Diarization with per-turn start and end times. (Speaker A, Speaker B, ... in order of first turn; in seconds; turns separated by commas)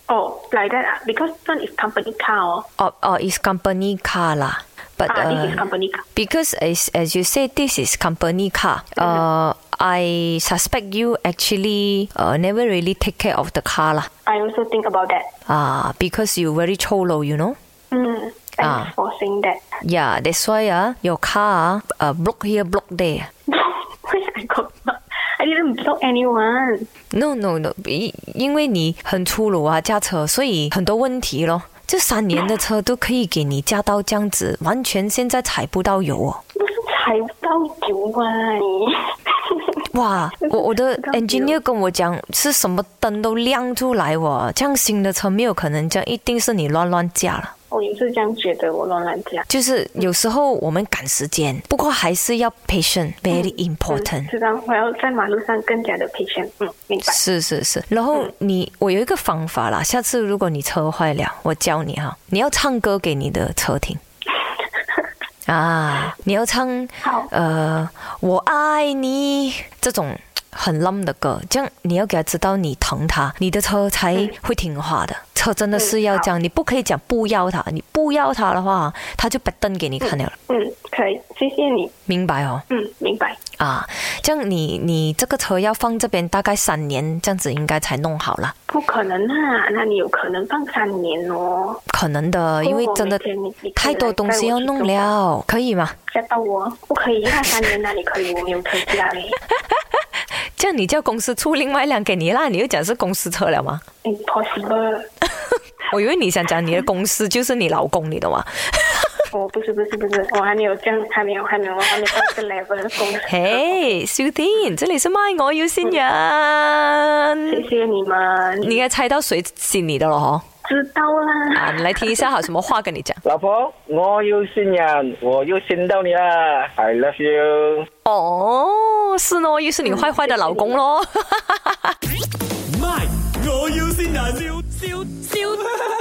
Speaker A: 0.1-2.7, Speaker B: 2.8-14.1, Speaker A: 5.1-6.0, Speaker A: 14.3-15.3, Speaker B: 15.5-17.6, Speaker A: 17.9-19.6, Speaker B: 18.6-18.9, Speaker B: 19.8-23.3, Speaker A: 23.5-26.9, Speaker B: 27.1-36.4, Speaker A: 36.6-39.7, Speaker B: 39.9-47.5, Speaker A: 40.4-41.6, Speaker A: 47.7-49.5, Speaker B: 49.5-54.3, Speaker A: 53.3-57.2, Speaker B: 57.1-64.0, Speaker A: 64.8-65.1, Speaker B: 65.5-80.3, Speaker A: 67.0-67.3, Speaker A: 75.8-76.3, Speaker A: 80.0-81.9, Speaker B: 82.1-82.6, Speaker A: 82.7-83.4, Speaker B: 83.6-88.5, Speaker A: 88.7-91.8, Speaker B: 91.9-93.2, Speaker A: 92.6-95.2, Speaker B: 93.8-96.0, Speaker A: 96.1-99.4, Speaker B: 100.3-103.8, Speaker A: 104.0-105.1, Speaker B: 105.3-109.3, Speaker A: 109.3-114.0, Speaker B: 113.2-117.7, Speaker A: 117.5-118.8, Speaker B: 118.6-120.5, Speaker A: 120.7-122.3, Speaker B: 121.5-123.2, Speaker C: 123.2-127.9, Speaker B: 128.1-131.9, Speaker A: 129.8-130.8, Speaker D: 132.7-135.7